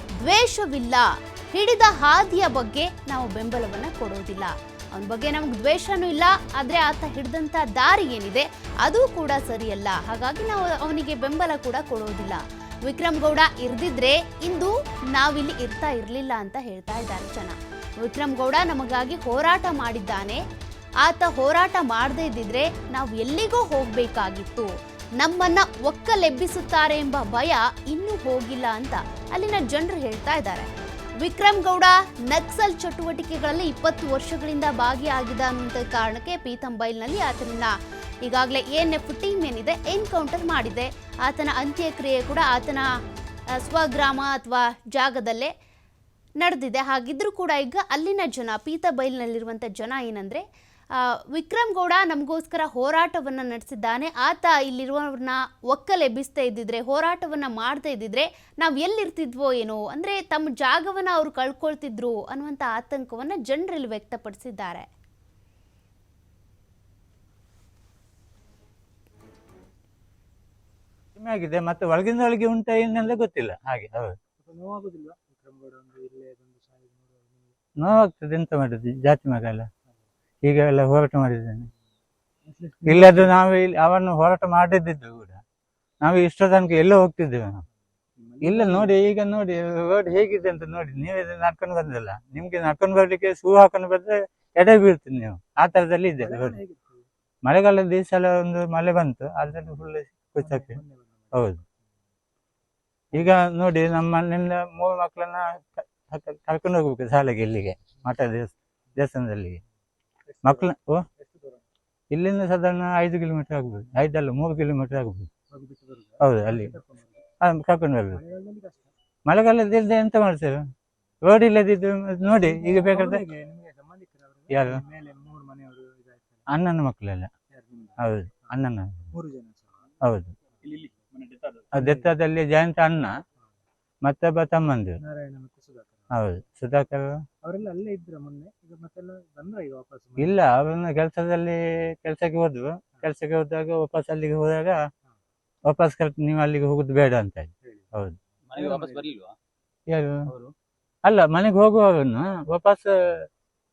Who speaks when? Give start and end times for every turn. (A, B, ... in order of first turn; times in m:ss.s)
0:00.2-0:20.4 A
0:21.0-0:30.7 A
0:31.2-0:37.7 A
0:38.2-0:42.9 A
0:43.6-0:45.5 A
0:46.4-0:50.4 A
0:51.3-1:04.8 A
1:11.2-1:14.1 B
1:14.4-1:17.6 C
1:17.8-1:19.7 B
1:20.4-1:21.7 B
1:22.4-1:23.3 C
1:22.8-1:25.4 B
1:26.0-1:27.6 B
1:28.2-1:28.9 C
1:28.4-1:36.6 B
1:36.2-1:37.0 C
1:37.4-1:40.8 B
1:40.4-1:41.4 C
1:41.3-1:41.6 B
1:43.1-1:49.6 B
1:50.3-1:51.6 C
1:50.4-1:51.0 B
1:52.1-1:55.3 B
1:55.5-1:57.2 C
1:56.2-1:56.7 B
1:57.4-1:58.2 B
1:58.1-1:58.9 C
1:59.3-2:00.6 B
2:01.2-2:03.2 B
2:02.2-2:06.5 C
2:04.5-2:04.8 B
2:06.5-2:07.3 B
2:07.5-2:09.9 C
2:08.0-2:09.1 B
2:10.0-2:10.3 B
2:10.6-2:11.1 C
2:10.6-2:11.7 D
2:11.7-2:12.1 C
2:11.7-2:13.1 B
2:14.0-2:15.0 B
2:15.0-2:16.1 C
2:16.1-2:17.2 B
2:17.4-2:20.4 C
2:20.2-2:24.8 B
2:25.7-2:28.2 B
2:27.6-2:27.9 C
2:28.5-2:29.3 D
2:28.5-2:29.1 C
2:29.9-2:30.3 B
2:31.0-2:33.2 B